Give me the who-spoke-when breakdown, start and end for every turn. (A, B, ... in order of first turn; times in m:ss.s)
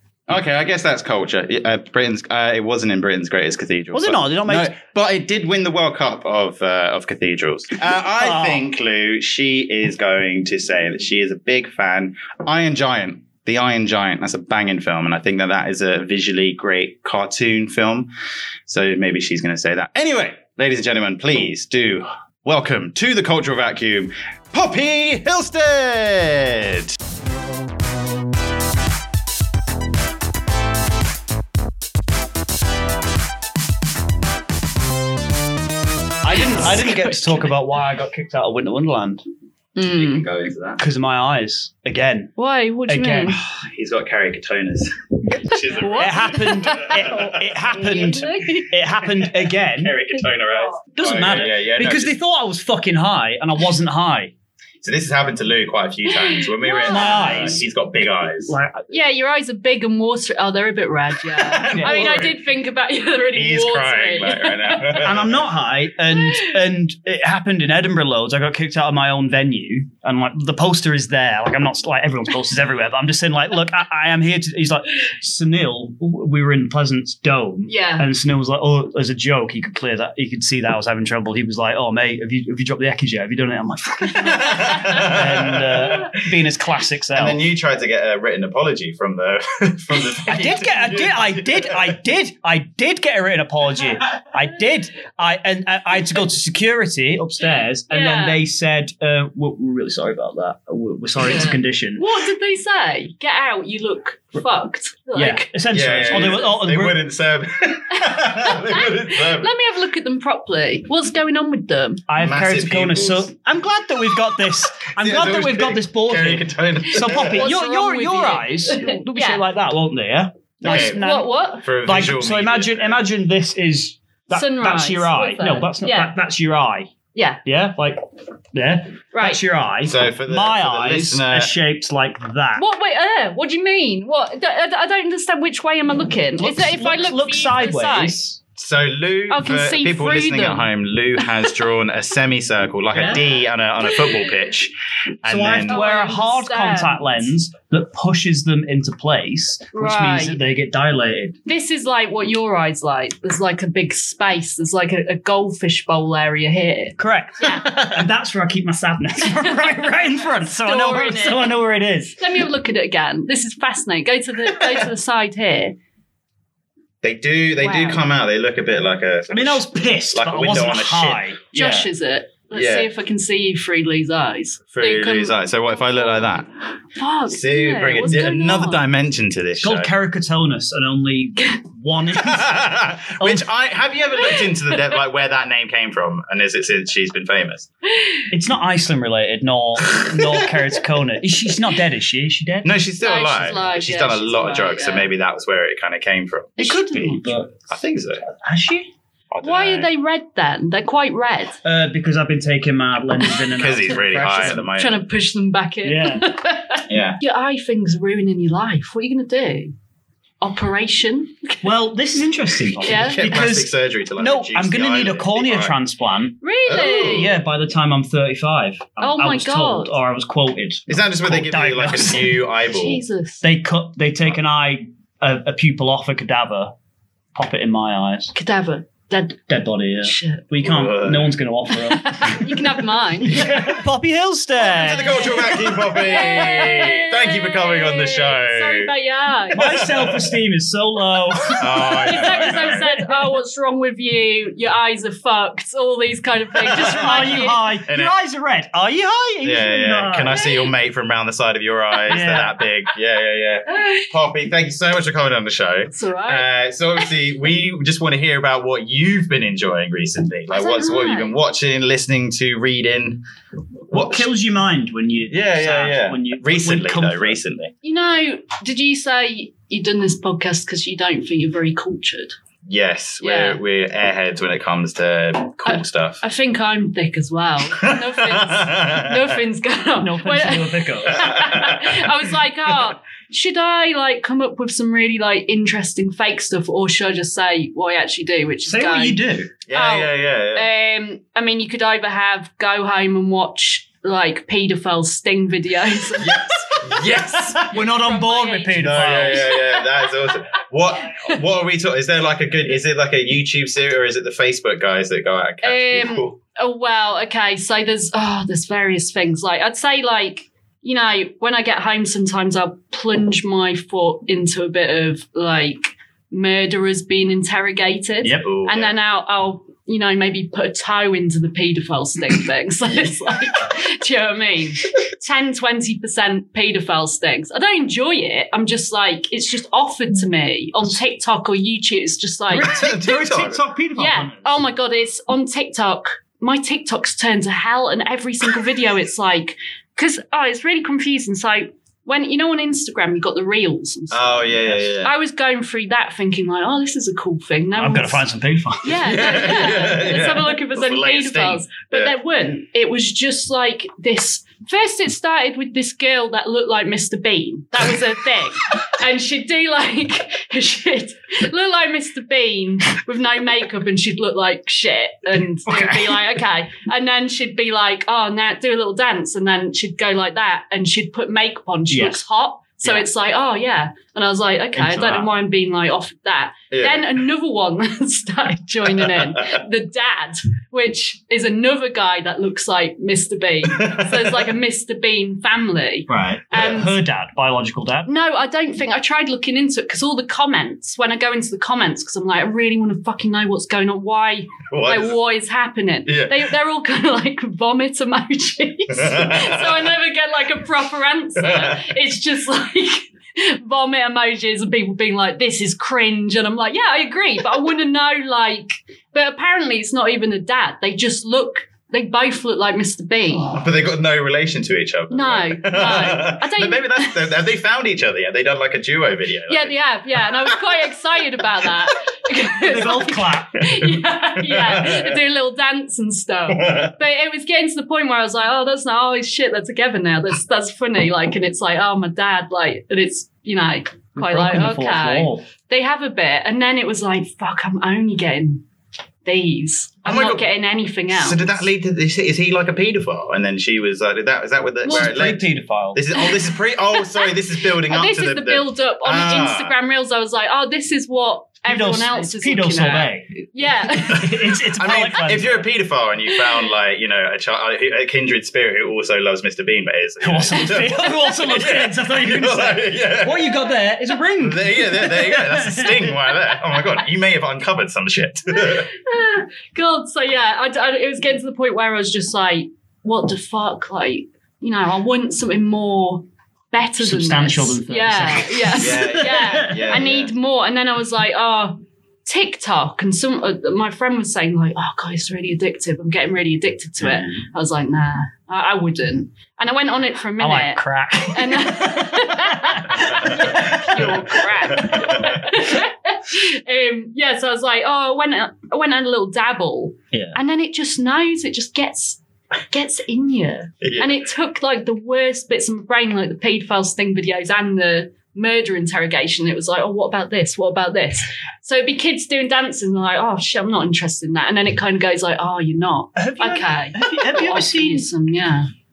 0:00.3-0:18.1 A
0:03.9-0:04.7 B
0:08.2-0:08.6 B
0:18.7-0:26.9 A
0:36.2-0:39.2 B
0:36.7-0:37.1 A
0:39.8-0:40.3 C
0:39.8-0:40.8 A
0:40.8-0:42.3 B
0:42.4-0:43.4 C
0:42.9-0:43.4 B
0:43.4-0:47.6 A
0:45.7-0:48.7 C
0:45.9-0:50.0 B
0:49.2-0:52.2 A
0:50.9-0:54.3 B
0:54.8-0:58.5 A
0:56.2-0:57.6 C
0:56.8-0:57.6 B
0:58.5-0:58.9 B
0:58.9-1:05.1 C
1:01.3-1:02.4 A
1:01.7-1:02.3 B
1:03.3-1:05.5 A
1:05.0-1:27.4 B
1:17.7-1:18.1 C
1:24.2-1:26.2 A
1:27.1-1:31.9 A
1:30.2-1:42.0 B
1:37.9-1:38.4 C
1:41.2-1:45.5 C
1:45.2-1:47.0 B
1:45.7-1:49.5 A
1:47.9-1:52.0 C
1:52.1-2:01.3 B
1:52.2-1:53.3 A
1:55.0-1:57.5 A
1:57.0-1:59.4 C
2:00.6-2:01.0 A
2:00.6-2:01.6 C
2:01.6-2:03.0 A
2:01.8-2:06.9 B
2:04.3-2:06.1 C
2:07.1-2:07.4 C
2:07.4-2:08.0 B
2:08.5-2:12.6 B
2:09.1-2:09.4 C
2:09.8-2:11.5 A
2:12.6-2:18.2 C
2:16.4-2:18.4 B
2:18.6-2:25.8 A
2:19.3-2:21.5 C
2:22.9-2:23.2 B
2:25.2-2:31.4 B
2:25.7-2:27.3 C
2:29.7-2:30.4 C
2:31.4-2:37.8 C
2:37.0-2:42.2 B
2:39.2-2:39.9 C
2:40.5-2:41.5 C
2:42.2-2:45.8 C
2:47.0-2:51.2 A
2:47.6-2:48.0 C
2:49.3-2:51.9 B
2:51.5-2:56.4 C
2:52.5-2:52.9 A
2:54.7-2:56.5 A
2:57.0-2:58.8 C
2:57.3-2:59.9 A
2:59.6-3:02.6 B
3:02.1-3:07.7 A
3:03.2-3:03.4 B
3:04.2-3:04.8 C
3:07.9-3:08.3 C
3:08.3-3:12.7 B
3:09.9-3:10.3 A
3:12.6-3:16.6 A
3:13.0-3:15.1 C
3:16.6-3:17.3 C
3:16.6-3:17.5 B
3:17.7-3:18.2 A
3:18.2-3:18.9 B
3:19.3-3:19.9 A
3:19.4-3:21.6 C
3:21.6-3:24.7 B
3:23.2-3:23.5 C
3:23.5-3:25.0 A
3:24.7-3:29.7 C
3:25.8-3:26.2 B
3:26.9-3:27.2 A
3:30.4-3:31.7 C
3:31.6-3:42.4 B
3:32.8-3:33.2 C
3:32.8-3:35.8 A
3:36.4-3:37.3 C
3:36.6-3:37.4 A
3:39.0-3:39.9 C
3:40.9-3:43.0 A
3:42.7-3:43.4 C
3:43.4-3:46.7 B
3:47.3-3:48.3 B
3:48.3-3:49.4 C
3:49.5-3:55.4 B
3:50.0-3:50.5 C
3:50.6-3:51.4 A
3:51.8-3:53.6 C
3:53.3-3:53.8 A
3:54.6-3:58.9 A
3:54.7-3:59.9 C
3:59.5-4:03.0 B
3:59.6-4:00.2 A
4:01.6-4:02.8 A
4:01.8-4:07.8 C
4:06.7-4:10.4 B
4:06.7-4:07.3 A
4:07.9-4:08.1 A
4:09.4-4:23.2 A
4:10.3-4:10.7 C
4:12.1-4:12.5 B
4:13.7-4:14.1 C
4:15.9-4:17.1 C
4:20.5-4:21.3 C
4:23.9-4:24.3 A
4:23.9-4:27.4 B
4:25.3-4:27.7 A
4:27.8-4:32.3 C
4:32.6-4:36.2 A
4:33.2-4:33.6 C
4:35.6-4:49.2 C
4:37.7-4:39.4 A
4:40.0-4:41.3 B
4:41.1-4:42.1 A
4:48.6-4:49.5 B
4:49.7-4:50.7 A
4:49.7-5:00.3 C
4:56.2-4:57.6 A
4:57.6-4:59.5 B
4:58.7-5:06.4 A
5:05.6-5:32.7 C
5:18.4-5:19.0 A
5:32.5-5:34.5 B
5:32.6-5:33.6 A
5:34.0-5:48.2 C
5:44.1-5:45.1 A
5:47.8-5:49.3 B
5:48.8-6:27.0 C
5:48.9-5:52.1 A
6:05.7-6:06.3 B
6:11.9-6:12.2 B
6:14.8-6:15.3 B
6:16.7-6:17.2 A
6:18.9-6:19.6 A
6:23.6-6:24.5 A
6:26.1-6:28.1 B
6:28.0-6:53.6 C
6:34.7-6:35.2 A
6:36.0-6:36.5 A
6:38.9-6:39.9 A
6:41.4-6:41.9 A
6:53.5-7:00.6 A
6:55.1-6:57.3 C
6:59.5-7:18.6 C
7:01.4-7:01.7 A
7:02.6-7:03.7 B
7:03.7-7:05.2 A
7:06.5-7:06.9 A
7:14.2-7:15.4 B
7:19.2-7:21.6 C
7:20.0-7:20.4 A
7:21.1-7:29.7 A
7:24.8-7:26.0 B
7:26.9-7:27.3 C
7:27.8-7:34.4 C
7:31.7-7:35.7 B
7:34.2-7:43.6 A
7:40.2-7:46.2 B
7:44.4-7:48.9 A
7:48.5-8:38.7 C
7:57.0-7:59.8 B
7:58.8-8:00.3 A
8:07.0-8:07.4 B
8:10.4-8:15.1 B
8:13.2-8:15.5 A
8:20.1-8:20.4 B
8:23.8-8:24.2 A
8:36.2-8:38.1 B